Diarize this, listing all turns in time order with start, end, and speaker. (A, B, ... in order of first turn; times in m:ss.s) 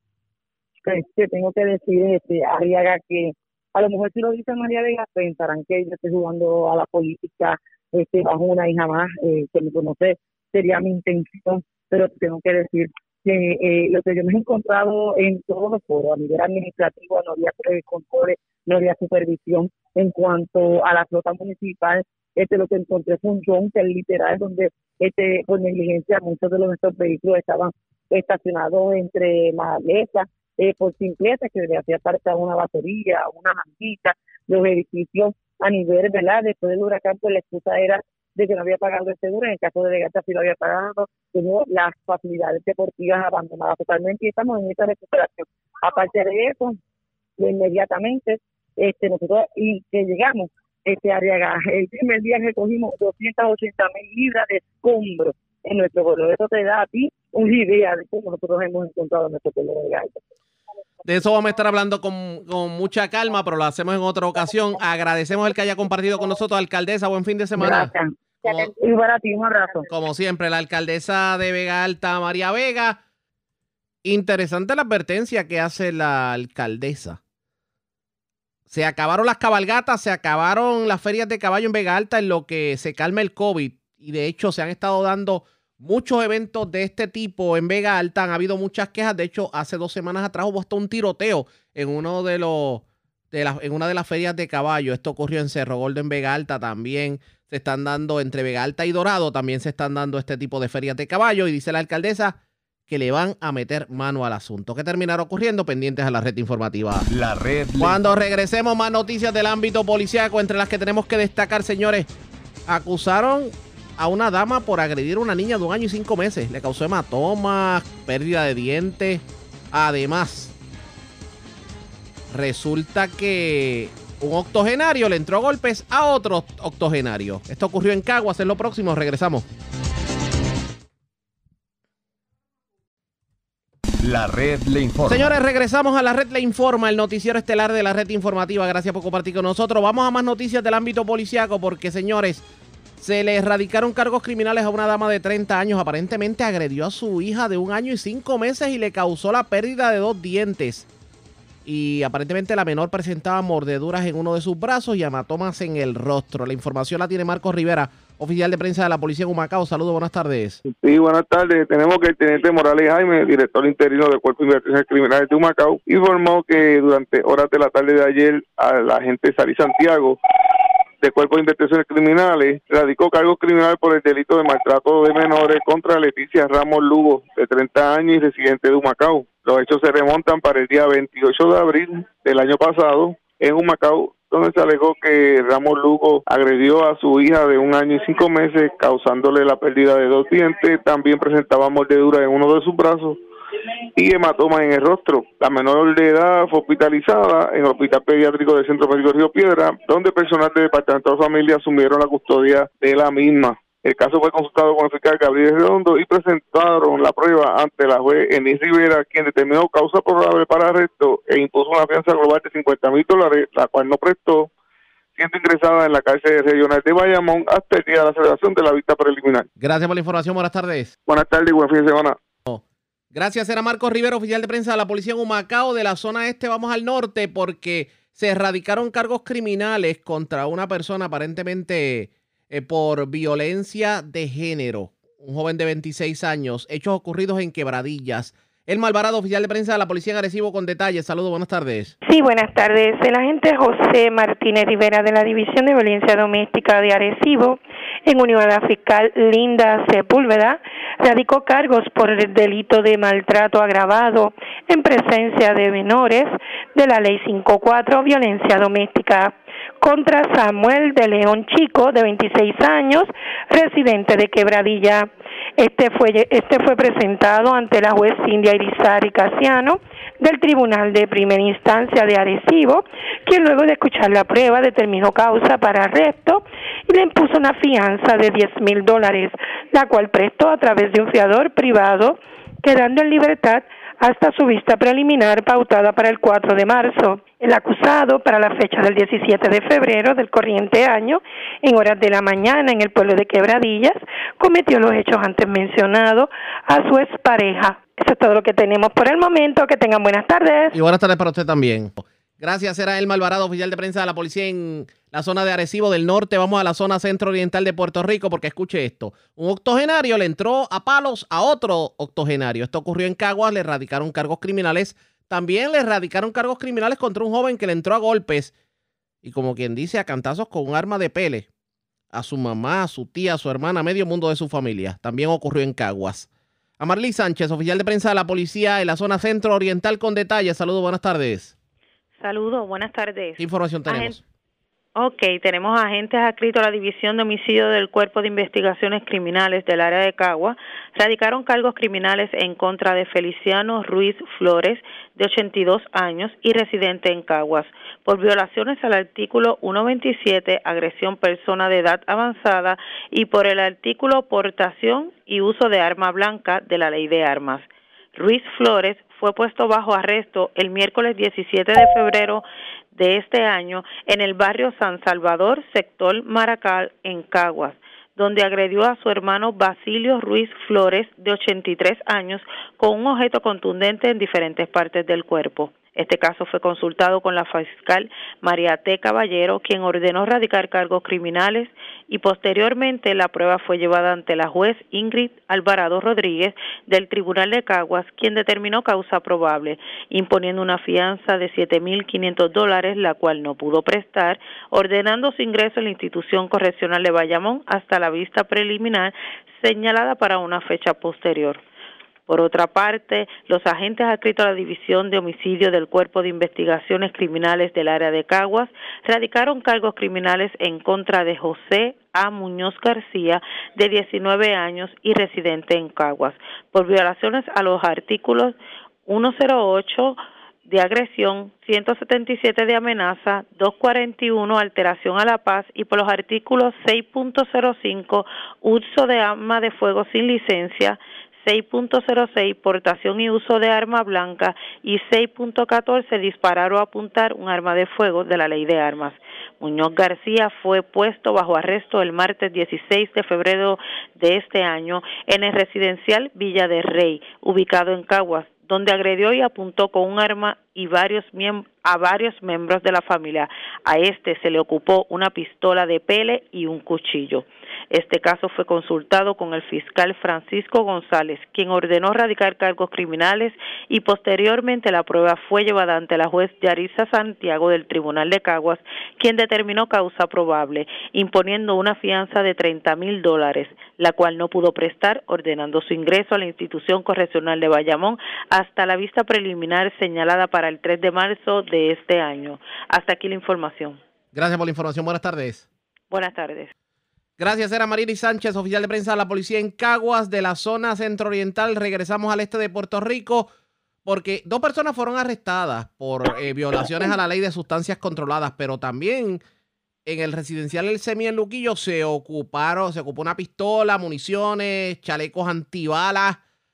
0:00.8-0:46.8 A
0:47.4-1:00.2 A
1:01.0-1:07.9 B
1:07.6-1:09.8 A
1:08.4-1:08.7 B
1:09.9-1:13.0 B
1:14.0-1:17.2 B
1:18.7-1:47.1 B
1:47.1-1:48.2 C
1:47.8-1:52.1 B
1:52.7-2:00.5 B
2:02.3-2:09.4 B
2:14.0-2:15.3 C
2:15.1-2:22.4 B
2:23.0-2:30.9 B
2:31.6-2:40.6 B
2:40.7-2:50.2 D
2:51.0-3:13.2 D
3:14.0-3:34.5 D
3:35.2-3:39.4 D
3:39.6-3:40.9 B
3:41.1-3:42.2 D
3:43.1-4:01.9 B
4:02.0-5:00.7 E
5:00.7-5:18.5 B
5:19.2-5:21.5 B
5:22.1-5:26.3 B
5:26.8-5:31.5 B
5:32.2-5:34.2 F
5:33.4-5:34.2 B
5:35.0-6:41.6 F
6:42.3-8:04.0 F
8:04.3-8:05.6 B
8:06.1-8:06.7 F
8:07.4-8:13.5 B
8:14.0-8:19.4 B
8:20.0-8:26.4 B